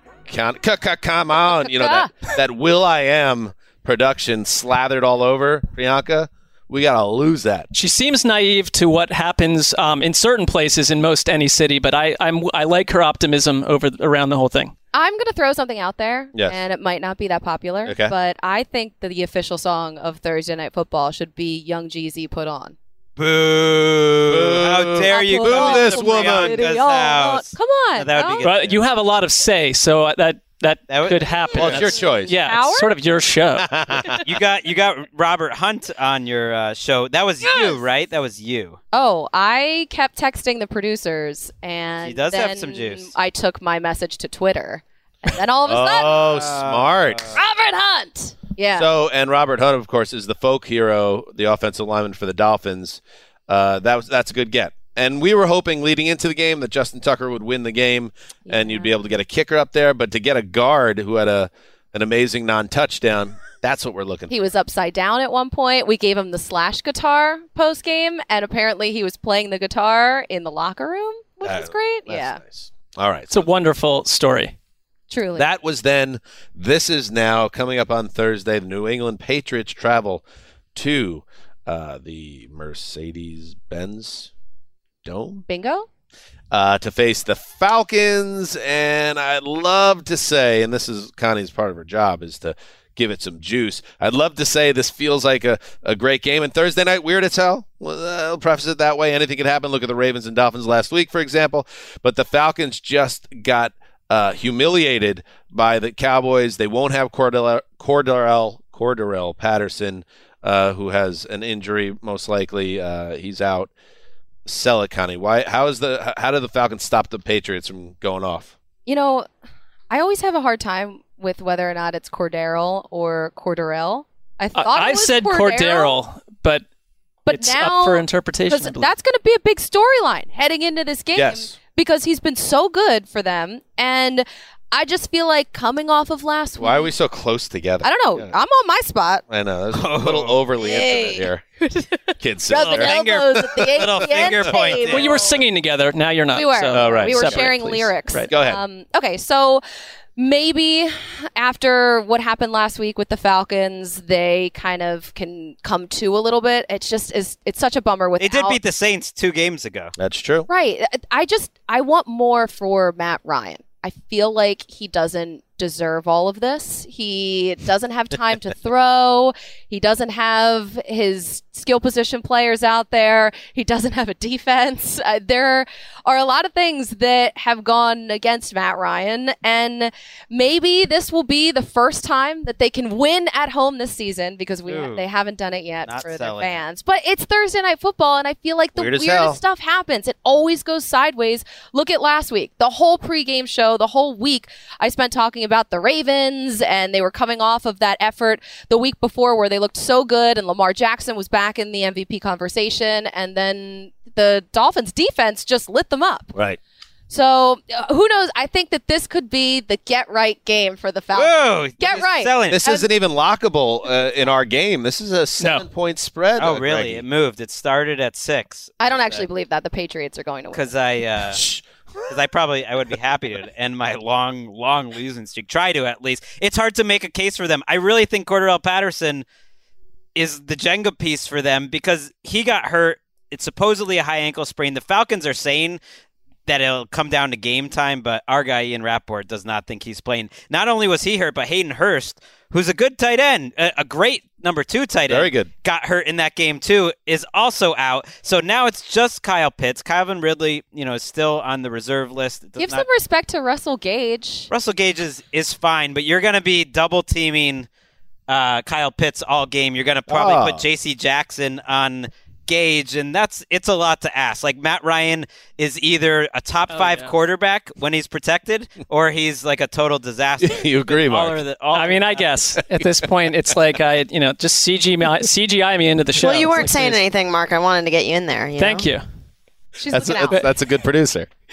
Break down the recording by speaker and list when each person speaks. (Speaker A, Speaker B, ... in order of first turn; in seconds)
Speaker A: 0.2-7.7, 17.8-18.1, 24.3-26.7, 31.5-32.4, 33.6-34.2, 45.6-47.4, 48.7-64.3, 71.4-73.5, 75.3-80.2, 80.7-84.3, 85.0-85.4, 86.5-113.7, 114.5-118.5, 131.1-131.5, 136.6-138.3, 139.3-141.4, 142.2-142.9, 143.5-144.4, 146.7-147.5, 148.3-148.6, 160.0-160.5, 188.8-189.4, 206.3-206.6, 212.5-217.0, 221.3-221.6, 245.1-245.5, 260.1-260.6, 270.4-271.4, 272.7-273.0, 279.9-281.3
Speaker B: 1.5-2.2, 14.9-22.8, 25.1-28.4, 32.3-32.9, 37.4-37.8, 38.9-46.3, 47.4-48.9, 58.5-59.2, 64.3-72.4, 75.1-75.5, 85.5-85.9, 118.9-119.3, 119.9-126.0, 127.2-136.9, 137.8-139.2, 140.6-145.4, 146.3-149.6, 150.2-158.6, 160.5-206.3, 207.1-212.9, 218.8-220.7, 252.6-254.5, 279.8-280.4
Speaker C: 7.7-14.7, 28.4-33.7, 73.3-74.5, 124.5-126.6, 127.3-128.9, 144.8-148.3, 215.4-215.7, 266.7-267.1, 271.7-277.0, 278.6-279.0
Speaker D: 23.2-28.8, 30.9-31.9, 34.2-38.8, 42.0-43.1, 46.1-47.4, 139.7-140.4, 142.5-145.4, 158.2-159.9, 184.7-185.1, 185.8-186.7, 211.1-212.6, 216.4-219.3, 220.5-221.5, 222.1-229.2, 230.1-235.8, 236.4-252.9, 254.5-257.7, 258.3-272.3
Speaker E: 276.1-278.9